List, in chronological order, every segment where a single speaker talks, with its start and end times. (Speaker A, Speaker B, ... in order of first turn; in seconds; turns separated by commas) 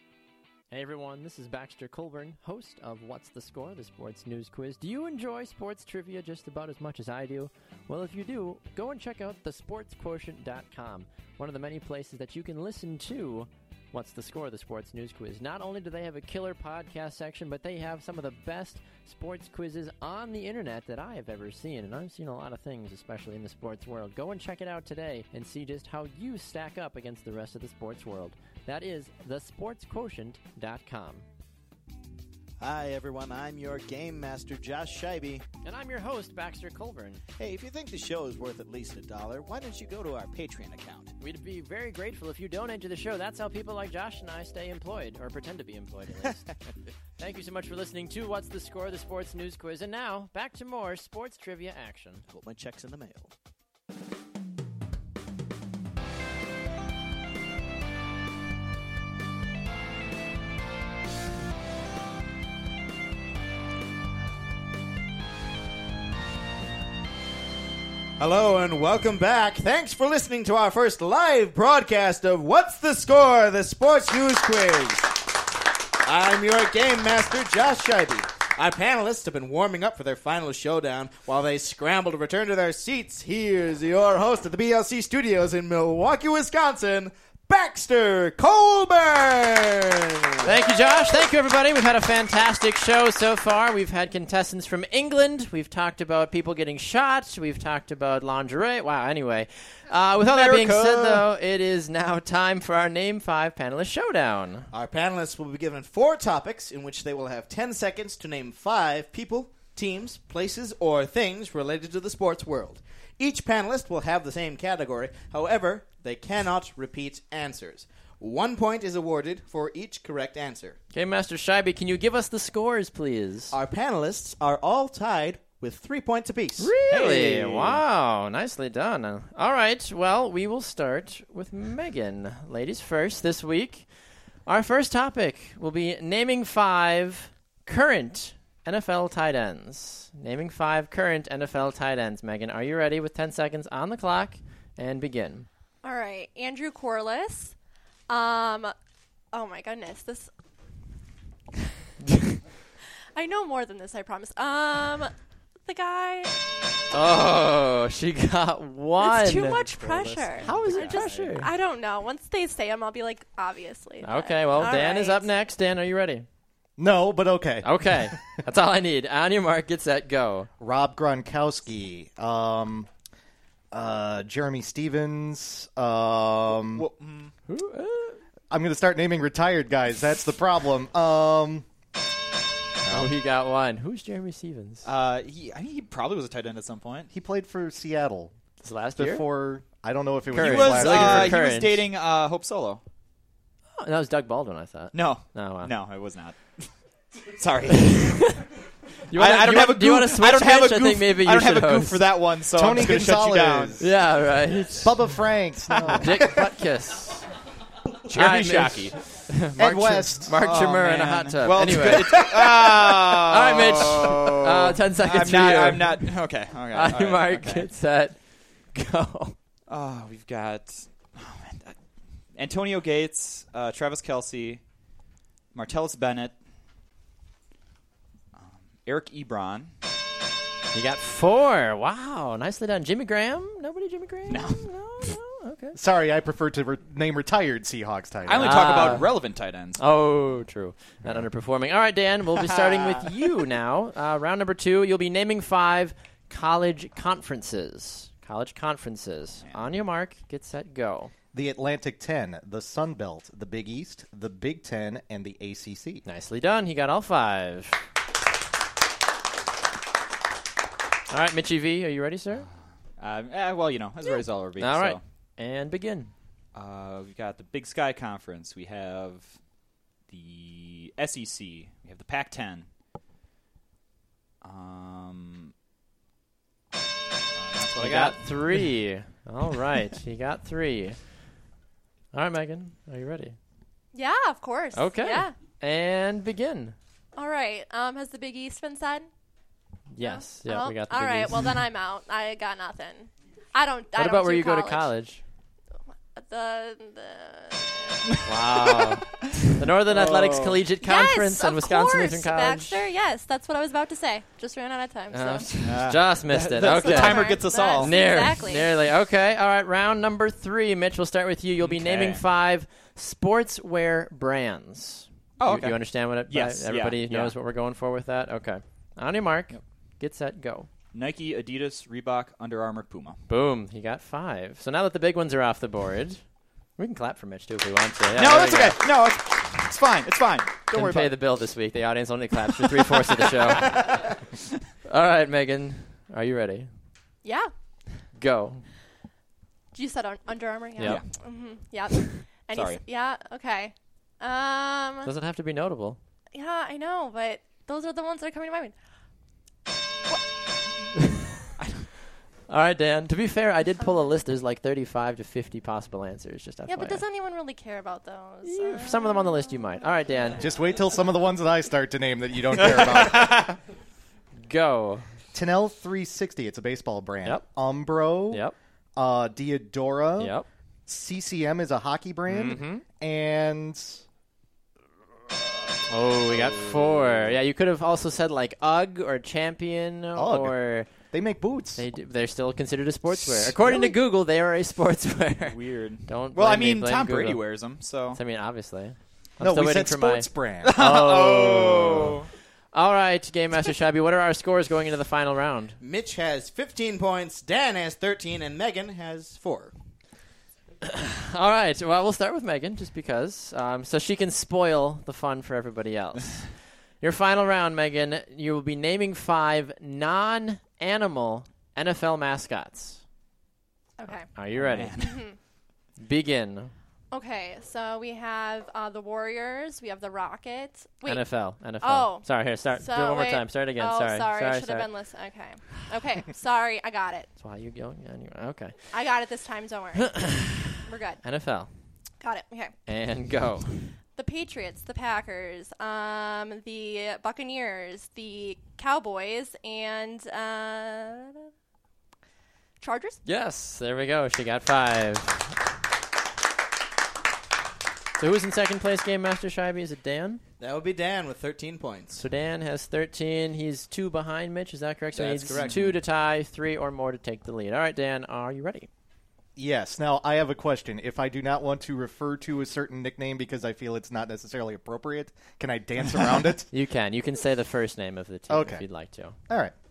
Speaker A: 0.7-31.2, Speaker B: 32.6-35.4, Speaker A: 35.6-37.2, Speaker B: 37.4-41.1, Speaker A: 41.2-46.5, Speaker A: 47.2-52.2, Speaker B: 52.3-53.3, Speaker B: 68.2-75.1, Speaker B: 76.0-90.5, Speaker A: 90.4-104.7, Speaker B: 100.3-101.2, Speaker C: 100.5-101.0, Speaker B: 104.7-120.8, Speaker A: 120.9-123.5, Speaker B: 123.5-126.7, Speaker A: 126.6-133.9, Speaker C: 126.9-127.8, Speaker A: 134.4-145.5, Speaker D: 145.8-147.6, Speaker D: 148.1-148.7, Speaker D: 149.3-150.3, Speaker D: 153.1-156.3, Speaker A: 156.9-159.6, Speaker D: 159.0-165.3, Speaker E: 159.8-161.3, Speaker A: 160.4-161.5, Speaker A: 164.0-166.2, Speaker E: 166.8-168.2, Speaker A: 167.6-170.5, Speaker E: 170.6-172.9, Speaker E: 173.7-176.9, Speaker C: 176.7-177.3, Speaker A: 177.5-178.2, Speaker E: 178.5-181.7, Speaker E: 182.8-183.1, Speaker A: 182.8-184.8, Speaker C: 184.8-187.1, Speaker E: 187.1-188.3, Speaker A: 188.6-189.2, Speaker E: 188.9-191.4, Speaker C: 190.3-192.8, Speaker A: 190.3-191.8, Speaker A: 193.8-195.7, Speaker C: 194.9-198.4, Speaker A: 197.9-198.3, Speaker A: 199.1-202.2, Speaker C: 199.1-204.0, Speaker E: 202.5-203.9, Speaker A: 203.8-205.3, Speaker E: 204.8-206.4, Speaker C: 205.7-206.0, Speaker A: 205.9-207.3, Speaker C: 208.1-209.1, Speaker A: 208.1-212.3, Speaker E: 209.6-210.3, Speaker C: 210.3-217.7, Speaker A: 213.2-219.4, Speaker C: 219.7-224.7, Speaker C: 225.5-226.4, Speaker C: 228.3-229.7, Speaker A: 230.7-235.8, Speaker C: 234.3-235.1, Speaker E: 235.7-239.0, Speaker C: 238.2-239.8, Speaker A: 238.4-251.1, Speaker C: 242.4-243.1, Speaker E: 251.3-256.0, Speaker A: 256.0-257.8, Speaker A: 261.1-262.5, Speaker C: 263.0-265.0, Speaker A: 264.6-266.1, Speaker C: 266.5-269.4, Speaker C: 270.0-272.7, Speaker C: 274.4-275.5, Speaker C: 277.3-278.7, Speaker A: 277.7-281.2, Speaker A: 282.1-283.4, Speaker D: 283.9-285.3, Speaker A: 284.7-286.8, Speaker D: 287.1-289.1, Speaker A: 289.9-291.5, Speaker D: 290.0-294.9, Speaker A: 293.9-295.2, Speaker D: 296.1-298.0, Speaker A: 298.2-302.8, Speaker C: 299.2-300.6, Speaker D: 300.8-305.5, Speaker A: 305.1-320.7, Speaker C: 305.6-307.9, Speaker D: 306.6-308.7, Speaker C: 311.6-312.2, Speaker C: 315.4-317.3, Speaker C: 320.9-323.2, Speaker A: 323.3-328.8, Speaker C: 328.1-331.2, Speaker A: 330.7-334.2, Speaker C: 332.9-334.2, Speaker A: 334.9-336.7, Speaker D: 337.2-337.8, Speaker A: 338.1-338.7, Speaker D: 339.7-345.1, Speaker A: 340.8-341.0, Speaker C: 340.8-341.8, Speaker C: 342.5-342.8, Speaker A: 345.0-346.0, Speaker D: 346.3-348.7, Speaker C: 351.6-351.9, Speaker A: 352.5-357.0, Speaker D: 356.7-359.9, Speaker A: 358.4-360.4, Speaker E: 360.4-363.6, Speaker C: 362.6-363.6, Speaker A: 364.4-365.0, Speaker E: 365.3-374.0, Speaker A: 368.3-368.6, Speaker A: 370.2-370.5, Speaker A: 372.3-372.8, Speaker A: 375.9-381.1, Speaker E: 380.1-381.8, Speaker A: 381.7-392.1, Speaker C: 385.4-388.2, Speaker E: 389.4-391.9, Speaker C: 390.6-392.3, Speaker A: 392.7-395.8, Speaker B: 395.8-399.8, Speaker A: 400.9-413.0, Speaker D: 414.0-414.3, Speaker A: 414.3-415.4, Speaker C: 414.4-415.3, Speaker D: 415.0-415.4, Speaker A: 416.0-416.7, Speaker D: 417.1-427.3, Speaker A: 421.1-424.9, Speaker A: 427.4-428.9, Speaker D: 428.9-431.2, Speaker A: 430.1-431.7, Speaker D: 432.2-432.8, Speaker A: 432.9-433.9, Speaker D: 434.1-441.5, Speaker D: 442.8-443.2, Speaker A: 443.2-445.6, Speaker A: 448.2-450.4, Speaker B: 450.6-452.2, Speaker A: 452.2-458.9, Speaker C: 455.2-455.9, Speaker B: 455.4-455.9, Speaker E: 459.6-466.7, Speaker A: 466.7-469.4, Speaker E: 468.5-468.9, Speaker E: 469.4-469.7